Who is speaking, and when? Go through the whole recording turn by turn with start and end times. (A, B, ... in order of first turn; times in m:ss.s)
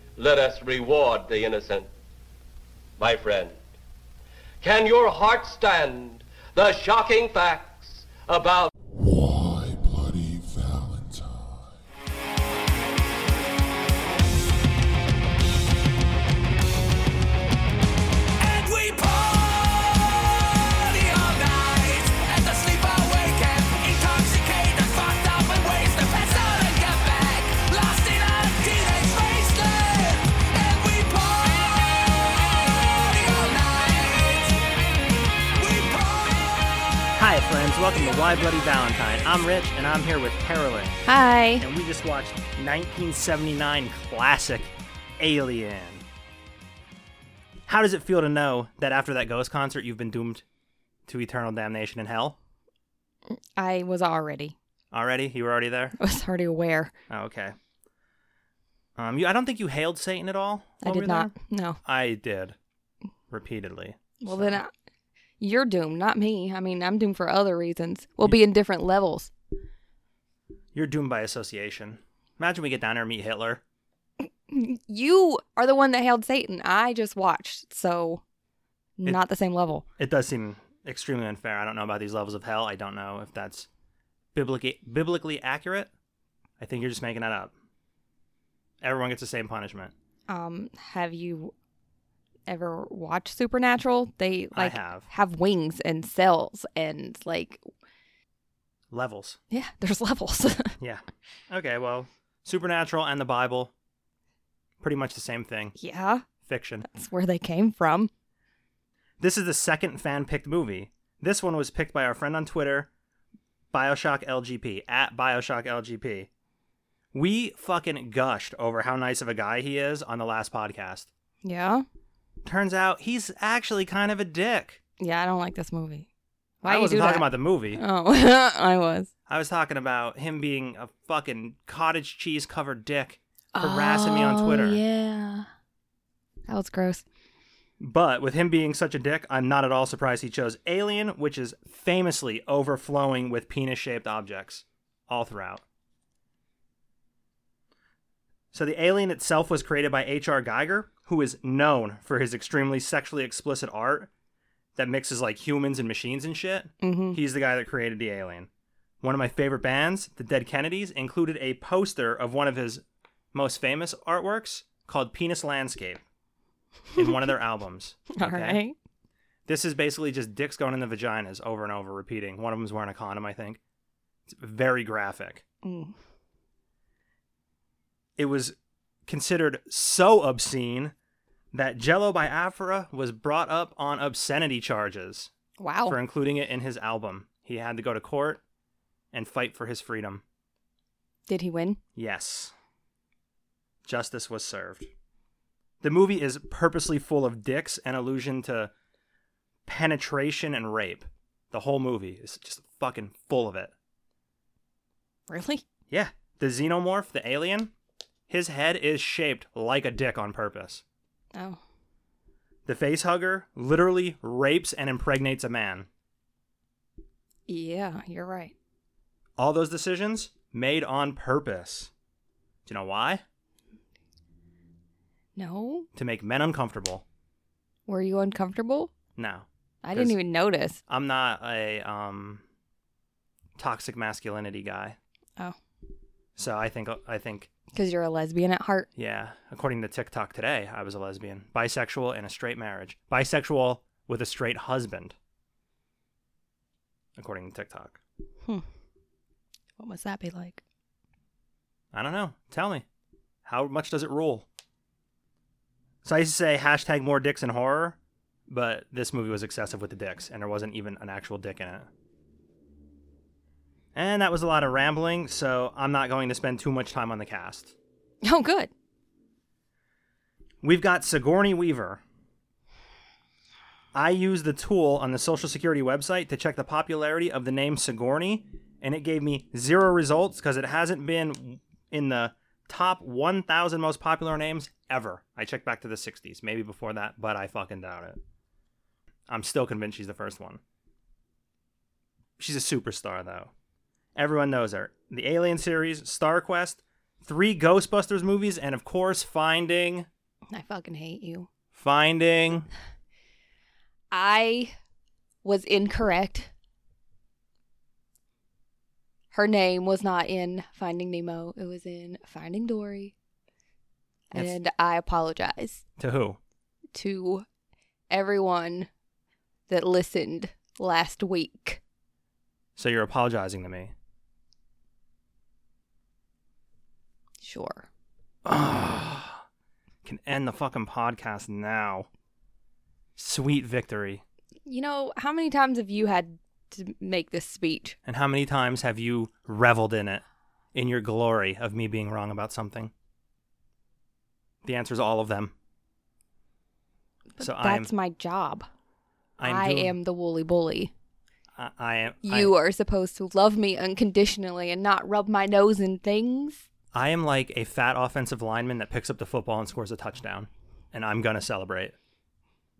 0:00.2-0:01.9 A
0:03.0-0:03.6 A
0:04.6-0:08.7 A
0:08.9-0:11.8 B
0:18.4-0:34.6 C
0:35.6-0:37.1 C
0:37.2-0:41.0 D
0:41.0-0:41.6 E
0:41.6-0:46.0 D
0:47.7-0:50.4 D
0:51.1-0:52.4 D
0:53.6-0:54.5 E
0:54.9-0:56.0 D
0:56.0-0:56.9 E
0:57.1-0:57.6 D
0:59.0-1:02.6 D
1:00.8-1:01.8 E
1:03.3-1:04.6 D
1:04.2-1:04.7 E
1:05.4-1:09.3 E
1:10.7-1:13.6 D
1:14.5-1:18.2 E
1:19.0-1:19.8 E
1:20.0-1:23.7 D
1:24.3-1:25.9 D
1:26.6-1:27.5 D
1:28.8-1:29.9 D
1:30.3-1:31.5 E
1:32.5-1:37.6 E
1:34.5-1:35.1 D
1:38.9-1:39.4 D
1:39.5-1:40.8 E
1:40.8-1:43.7 D
1:44.8-1:45.8 D
1:45.8-1:46.2 E
1:46.4-1:46.8 D
1:46.8-1:48.1 E
1:49.2-1:52.9 D
1:53.7-1:56.3 D
1:57.1-2:01.1 D
2:01.4-2:01.8 E
2:02.4-2:04.8 D
2:05.0-2:06.1 E
2:06.6-2:07.8 D
2:06.6-2:09.1 E
2:09.3-2:14.8 D
2:13.5-2:15.5 E
2:16.5-2:17.0 E
2:17.8-2:25.6 D
2:28.5-2:34.1 D
2:34.8-2:38.5 D
2:36.8-2:37.2 E
2:39.0-2:46.0 D
2:46.9-2:48.6 D
2:48.1-2:48.7 E
2:49.4-2:53.6 D
2:54.3-2:55.4 D
2:55.6-2:55.9 E
2:58.2-2:58.6 D
2:59.1-3:00.9 D
3:01.5-3:05.3 D
3:05.6-3:06.0 E
3:05.9-3:08.4 D
3:09.1-3:10.2 D
3:11.3-3:11.8 E
3:11.9-3:12.5 D
3:13.8-3:14.9 D
3:15.8-3:18.7 D
3:19.7-3:23.7 D
3:25.3-3:25.6 E
3:25.9-3:27.7 D
3:28.3-3:30.8 D
3:31.3-3:31.6 E
3:32.6-3:35.9 D
3:37.5-3:38.5 E
3:39.4-3:41.9 D
3:42.6-3:43.2 D
3:45.4-3:45.8 E
3:45.9-3:47.0 D
3:47.9-3:48.9 E
3:49.2-3:50.2 D
3:49.8-3:50.8 E
3:50.9-3:52.4 D
3:53.6-3:55.0 D
3:56.4-3:57.5 D
3:57.7-3:58.9 E
3:59.0-4:05.2 D
4:07.2-4:08.0 D
4:09.8-4:10.6 E
4:11.9-4:12.8 D
4:13.4-4:14.4 D
4:16.0-4:21.9 D
4:23.9-4:27.7 D
4:28.2-4:28.7 E
4:30.6-4:32.0 D
4:33.9-4:48.2 D
4:49.3-4:50.6 D
4:52.4-4:53.5 D
4:54.2-5:00.1 D
5:00.5-5:01.5 E
5:01.7-5:02.7 D
5:04.1-5:04.7 E
5:05.4-5:06.5 E
5:09.3-5:13.1 E
5:14.3-5:15.8 E
5:16.0-5:16.4 D
5:16.9-5:17.4 E
5:18.1-5:18.9 E
5:19.7-5:21.8 E
5:22.8-5:23.9 D
5:27.4-5:27.9 E
5:28.4-5:29.4 D
5:30.0-5:32.1 D
5:33.2-5:34.2 D
5:34.6-5:38.0 E
5:38.0-5:40.2 D
5:40.7-5:42.9 D
5:44.6-5:45.5 D
5:47.4-5:48.6 E
5:47.4-5:47.9 D
5:49.4-5:50.0 D
5:49.4-5:50.9 E
5:51.6-5:52.5 D
5:52.2-5:56.6 E
5:56.9-6:02.0 D